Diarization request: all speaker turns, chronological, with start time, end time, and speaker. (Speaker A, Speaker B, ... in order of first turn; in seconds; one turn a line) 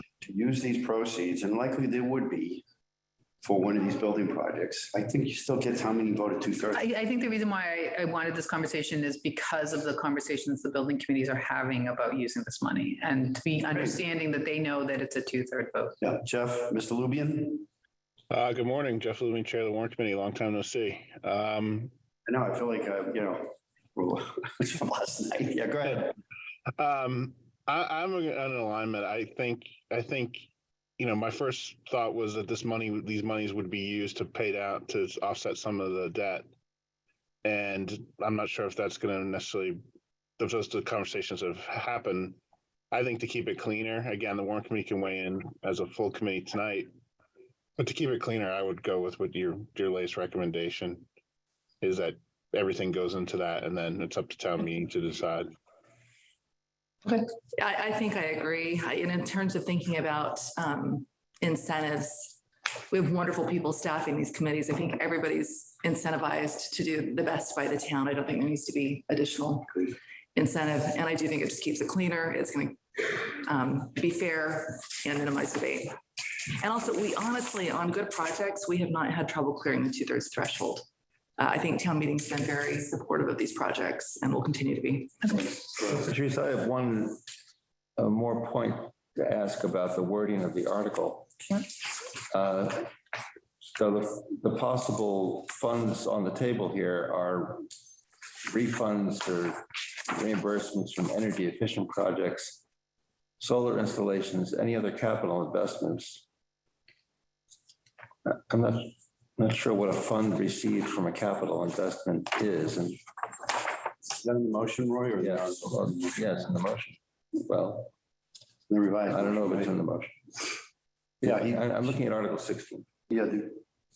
Speaker A: 0.2-2.6
Speaker A: 3.4-6.8
Speaker B: 6.7-16.0
Speaker A: 16.0-17.7
Speaker C: 18.3-21.9
Speaker A: 22.3-26.1
Speaker C: 26.8-36.5
Speaker C: 37.4-39.8
Speaker C: 40.4-42.4
Speaker C: 42.9-46.9
Speaker C: 47.8-51.1
Speaker C: 51.8-55.5
Speaker D: 57.0-62.4
Speaker D: 62.9-76.0
Speaker D: 76.5-80.9
Speaker D: 81.4-85.4
Speaker E: 85.7-87.2
Speaker E: 88.0-91.4
Speaker E: 92.3-92.9
Speaker E: 93.7-97.7
Speaker E: 98.5-102.6
Speaker E: 103.4-106.2
Speaker E: 108.2-113.0
Speaker A: 114.1-116.5
Speaker E: 115.2-117.9
Speaker A: 118.7-119.8
Speaker E: 119.1-120.2
Speaker E: 121.2-122.8
Speaker A: 121.2-121.7
Speaker A: 123.1-123.6